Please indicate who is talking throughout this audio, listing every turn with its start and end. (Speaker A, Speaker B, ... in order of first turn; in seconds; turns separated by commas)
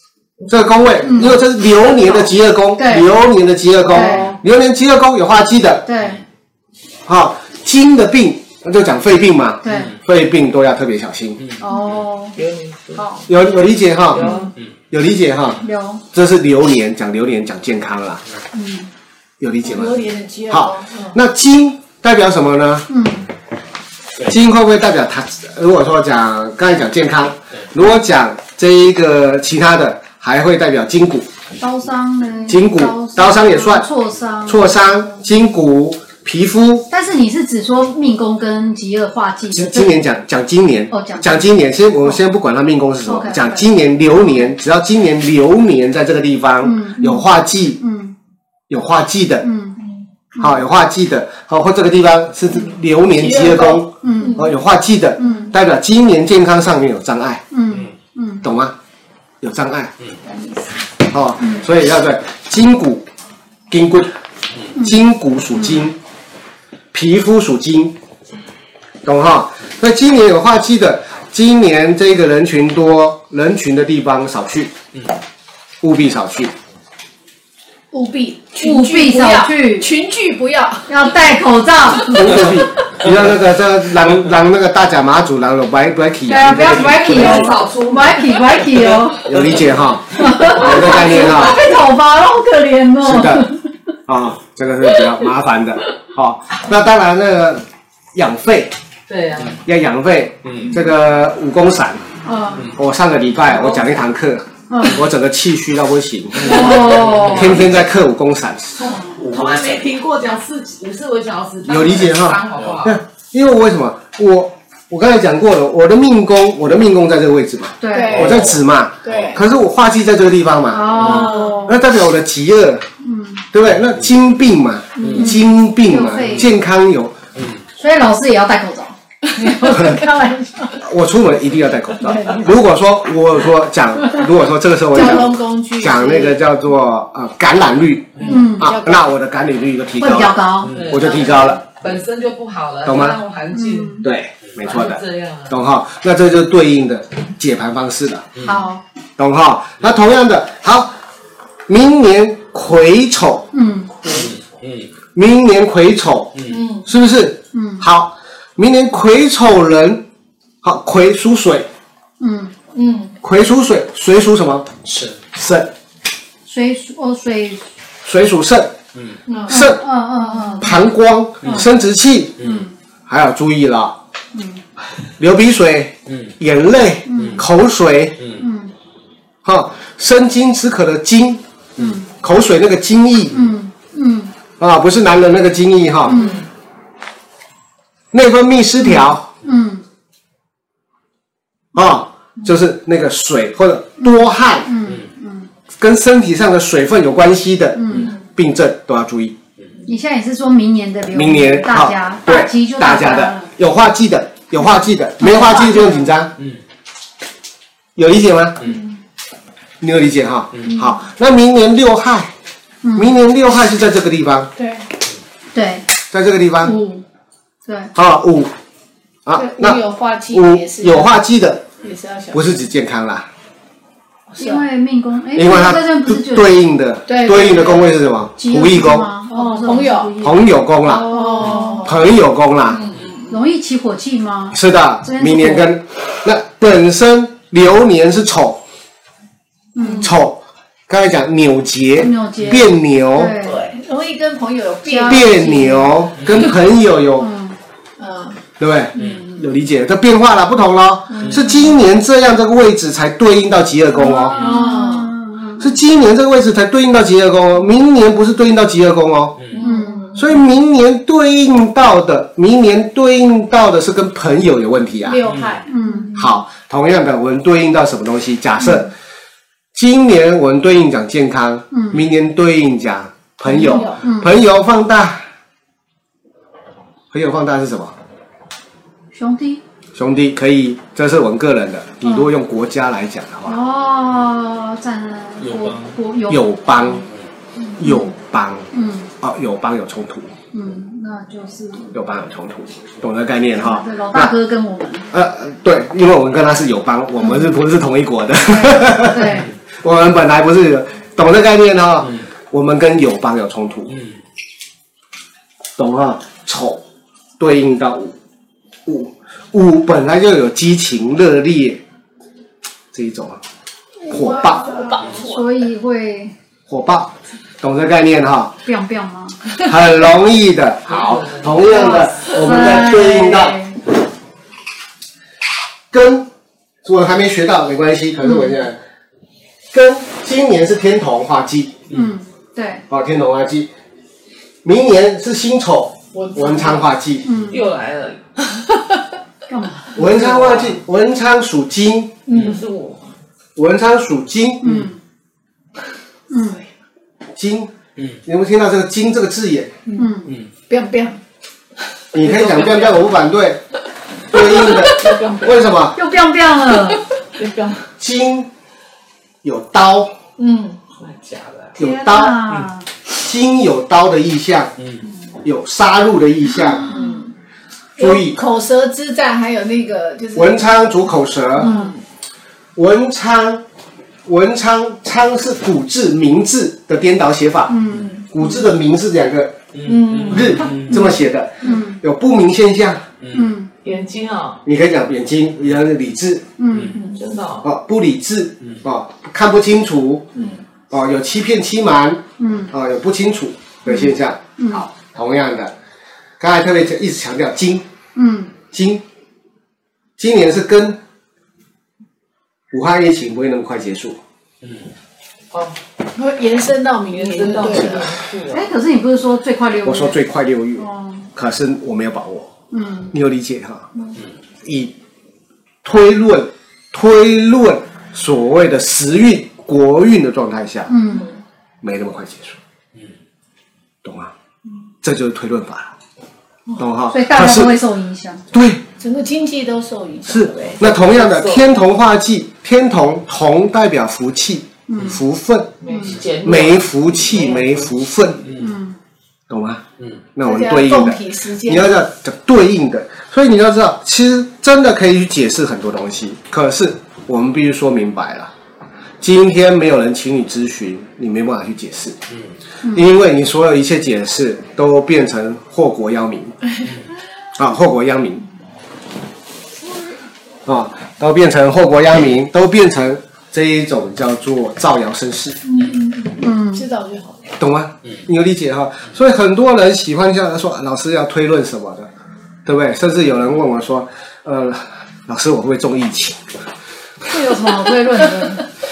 Speaker A: 0.4-0.7, Speaker B: 0.5-5.8, Speaker C: 1.0-1.4, Speaker C: 2.8-3.1, Speaker C: 3.9-4.3, Speaker A: 3.9-4.3, Speaker C: 5.8-6.2, Speaker B: 7.0-11.4, Speaker C: 9.6-9.9, Speaker C: 11.6-12.4, Speaker A: 12.3-13.1, Speaker C: 12.9-13.2, Speaker B: 13.3-14.3, Speaker A: 14.1-14.5, Speaker C: 14.2-14.5, Speaker B: 14.9-18.2, Speaker C: 15.6-16.0, Speaker C: 18.5-18.9, Speaker B: 19.4-22.9, Speaker D: 19.6-21.0, Speaker C: 22.9-23.3, Speaker B: 24.2-31.3, Speaker C: 31.6-34.7, Speaker B: 32.5-33.9, Speaker B: 34.5-36.9, Speaker C: 36.9-40.0, Speaker B: 39.5-47.8, Speaker C: 40.9-42.2, Speaker C: 43.0-44.5, Speaker C: 46.6-48.1, Speaker B: 48.7-49.5, Speaker C: 49.4-49.8, Speaker C: 50.3-50.6, Speaker B: 50.4-57.4, Speaker D: 53.2-54.4, Speaker C: 54.0-54.5, Speaker C: 55.2-55.5, Speaker C: 57.5-58.5, Speaker B: 58.4-58.7, Speaker B: 59.4-59.9, Speaker C: 60.2-60.8, Speaker B: 61.0-63.0, Speaker C: 61.4-61.6, Speaker B: 63.7-64.1, Speaker B: 64.8-66.0, Speaker C: 65.6-65.8, Speaker B: 66.9-68.0, Speaker B: 69.0-74.7, Speaker B: 75.8-76.5, Speaker D: 77.9-80.9, Speaker C: 78.5-79.9, Speaker C: 80.9-82.5, Speaker B: 82.0-87.4, Speaker C: 86.3-89.3, Speaker D: 86.7-87.5, Speaker A: 87.0-89.0, Speaker B: 89.2-91.6, Speaker C: 90.1-93.7, Speaker B: 93.0-93.5, Speaker B: 94.1-97.6, Speaker B: 98.1-98.7, Speaker A: 99.1-99.6, Speaker B: 99.6-102.0, Speaker C: 102.3-102.6, Speaker B: 102.7-109.0, Speaker C: 104.7-105.0, Speaker C: 106.4-107.5, Speaker D: 106.5-107.4, Speaker E: 106.6-107.3, Speaker A: 107.2-107.7, Speaker A: 109.0-113.0, Speaker B: 111.6-122.8, Speaker C: 117.8-118.3, Speaker D: 117.9-118.4, Speaker D: 119.0-119.4, Speaker C: 120.7-121.8, Speaker D: 121.1-121.6, Speaker C: 123.0-123.5, Speaker B: 123.5-127.1, Speaker C: 125.1-126.5, Speaker C: 127.7-130.4, Speaker D: 129.3-130.7, Speaker B: 130.8-141.6, Speaker D: 132.0-132.5, Speaker D: 134.9-136.4, Speaker D: 138.2-139.0, Speaker C: 138.2-138.8, Speaker C: 140.0-140.7, Speaker A: 140.7-144.0, Speaker B: 142.8-143.2, Speaker C: 143.5-144.1, Speaker B: 144.0-148.3, Speaker A: 144.6-145.5, Speaker C: 148.4-148.8, Speaker B: 149.2-150.9, Speaker B: 151.7-153.5, Speaker C: 153.5-154.1, Speaker E: 154.2-154.8, Speaker B: 155.1-160.1, Speaker A: 156.5-156.8, Speaker C: 157.5-157.8, Speaker B: 160.6-161.7, Speaker C: 162.2-162.5, Speaker D: 162.7-163.1, Speaker B: 163.2-164.7, Speaker E: 164.9-165.2, Speaker B: 165.3-165.7, Speaker C: 166.4-167.6, Speaker B: 168.0-168.8, Speaker D: 169.3-169.6, Speaker B: 169.4-169.8, Speaker C: 169.5-170.8, Speaker B: 170.6-172.4, Speaker C: 172.4-172.7, Speaker B: 173.1-174.0, Speaker C: 174.3-174.6, Speaker B: 175.2-178.3, Speaker C: 177.1-177.4, Speaker C: 178.3-178.7, Speaker B: 179.4-181.4, Speaker C: 181.8-182.1, Speaker B: 182.1-183.5, Speaker C: 183.3-184.3, Speaker B: 184.6-186.2, Speaker C: 186.1-186.4, Speaker A: 186.1-186.4, Speaker B: 188.1-189.3, Speaker C: 188.9-189.8, Speaker B: 191.7-194.7, Speaker C: 194.0-195.5, Speaker B: 195.8-199.3, Speaker C: 197.8-198.1, Speaker C: 199.8-203.5, Speaker B: 201.1-206.3, Speaker C: 205.2-205.7, Speaker B: 207.9-208.7, Speaker B: 209.8-212.3, Speaker C: 212.8-213.2, Speaker B: 212.9-214.5, Speaker D: 214.6-214.9, Speaker C: 215.5-215.9, Speaker B: 216.1-216.8, Speaker C: 216.6-217.0, Speaker C: 217.7-217.9, Speaker B: 217.9-218.5, Speaker B: 219.2-221.6, Speaker D: 219.3-221.1, Speaker D: 221.8-222.4, Speaker B: 222.3-223.3, Speaker D: 224.3-224.6, Speaker C: 224.4-226.6, Speaker B: 225.3-229.1, Speaker D: 227.1-227.9, Speaker C: 228.4-231.9, Speaker D: 229.3-230.1, Speaker B: 230.2-232.8, Speaker D: 230.8-231.9, Speaker A: 232.8-233.1, Speaker C: 233.3-235.7, Speaker B: 234.5-238.6, Speaker C: 239.7-240.1, Speaker B: 240.0-243.3, Speaker C: 242.0-243.6, Speaker D: 243.4-245.3, Speaker C: 244.8-246.1, Speaker B: 245.1-247.3, Speaker C: 247.2-247.6, Speaker D: 248.0-248.4, Speaker B: 248.6-254.4, Speaker D: 249.0-249.3, Speaker D: 251.1-251.6, Speaker C: 254.0-255.8, Speaker D: 254.2-255.1, Speaker B: 255.6-259.4, Speaker D: 259.5-260.2, Speaker C: 259.6-260.2, Speaker B: 260.1-265.2, Speaker D: 265.0-266.3, Speaker C: 265.7-266.1, Speaker B: 266.1-268.9, Speaker B: 269.7-275.2, Speaker C: 271.7-272.0, Speaker D: 273.5-274.0, Speaker C: 273.5-274.3, Speaker B: 277.1-277.9, Speaker C: 279.1-279.6, Speaker B: 279.9-283.6, Speaker C: 283.4-287.0, Speaker E: 285.5-285.9, Speaker B: 286.3-287.0, Speaker C: 287.8-288.1, Speaker B: 287.8-288.7, Speaker C: 288.7-289.1, Speaker B: 289.2-290.3, Speaker C: 290.5-292.0, Speaker B: 291.9-294.4, Speaker C: 293.5-295.1, Speaker B: 295.1-304.0, Speaker C: 298.4-299.5, Speaker B: 305.8-306.8, Speaker B: 307.4-308.1, Speaker B: 308.9-311.8, Speaker B: 312.9-313.4, Speaker B: 314.1-315.2, Speaker D: 314.6-315.3, Speaker C: 314.9-316.3, Speaker B: 316.7-318.5, Speaker C: 318.6-319.4, Speaker B: 319.6-323.7, Speaker A: 320.9-322.0, Speaker C: 321.6-323.8, Speaker B: 325.9-326.3, Speaker B: 326.8-328.8, Speaker C: 328.2-328.6, Speaker B: 329.7-331.8, Speaker C: 331.9-332.8, Speaker B: 332.9-333.7, Speaker B: 334.6-337.3, Speaker A: 336.2-336.9, Speaker C: 337.2-337.6, Speaker A: 337.5-338.7, Speaker C: 339.5-340.0, Speaker B: 339.9-342.2, Speaker A: 339.9-340.8, Speaker D: 342.3-342.6, Speaker A: 342.3-343.1, Speaker B: 343.6-344.7, Speaker C: 344.6-345.0, Speaker C: 346.3-346.6, Speaker B: 347.4-347.7, Speaker B: 348.2-349.7, Speaker D: 349.9-350.1, Speaker C: 349.9-350.3, Speaker D: 350.7-351.2, Speaker B: 352.1-353.6, Speaker A: 352.1-353.1, Speaker B: 354.3-356.0, Speaker A: 354.4-355.7, Speaker C: 355.9-357.0, Speaker A: 357.3-357.8, Speaker B: 358.0-358.5, Speaker B: 359.4-360.1, Speaker D: 360.4-360.8, Speaker A: 360.9-361.8, Speaker B: 361.8-362.5, Speaker C: 361.8-362.9, Speaker B: 363.1-364.7, Speaker B: 365.4-366.8, Speaker C: 366.6-367.1, Speaker D: 366.9-367.3, Speaker D: 367.9-370.8, Speaker B: 368.0-368.4, Speaker B: 370.3-371.7, Speaker C: 371.6-371.9, Speaker D: 371.6-372.0, Speaker B: 372.8-373.6, Speaker B: 374.2-379.6, Speaker C: 377.7-378.1, Speaker D: 378.1-378.4, Speaker E: 379.8-380.9, Speaker D: 379.8-380.6, Speaker B: 380.3-383.0, Speaker C: 380.9-382.0, Speaker C: 383.3-383.7, Speaker A: 383.8-384.6, Speaker B: 384.6-386.4, Speaker C: 386.6-387.0, Speaker A: 387.0-387.7, Speaker B: 387.6-390.3, Speaker A: 390.4-390.6, Speaker B: 390.9-395.7, Speaker C: 392.4-392.7, Speaker C: 393.9-394.9, Speaker B: 396.4-397.8, Speaker C: 398.1-398.5, Speaker B: 398.7-399.0, Speaker B: 400.2-401.0, Speaker B: 402.7-404.2, Speaker D: 406.1-408.0, Speaker A: 407.1-408.7, Speaker C: 408.5-410.2, Speaker B: 409.8-412.5, Speaker C: 410.8-411.3, Speaker C: 412.7-413.1, Speaker B: 413.1-413.9, Speaker B: 414.6-414.9, Speaker B: 415.8-420.9, Speaker C: 420.9-421.3, Speaker B: 421.8-422.6, Speaker B: 424.0-424.3, Speaker B: 425.0-425.9, Speaker C: 426.8-428.4, Speaker B: 426.8-427.8, Speaker B: 428.5-428.8, Speaker D: 429.0-430.8, Speaker B: 430.2-435.8, Speaker A: 430.8-431.7, Speaker C: 434.9-435.2, Speaker A: 435.8-437.9, Speaker C: 435.9-436.2, Speaker B: 436.4-438.4, Speaker C: 438.5-439.0, Speaker B: 439.5-439.8, Speaker B: 440.4-448.5, Speaker D: 440.4-441.9, Speaker B: 449.2-452.2, Speaker C: 452.8-453.1, Speaker B: 452.9-456.6, Speaker B: 457.6-458.4, Speaker B: 460.6-465.6, Speaker D: 465.6-467.4, Speaker C: 466.4-466.8, Speaker B: 467.6-472.1, Speaker B: 472.6-476.4, Speaker C: 477.2-478.6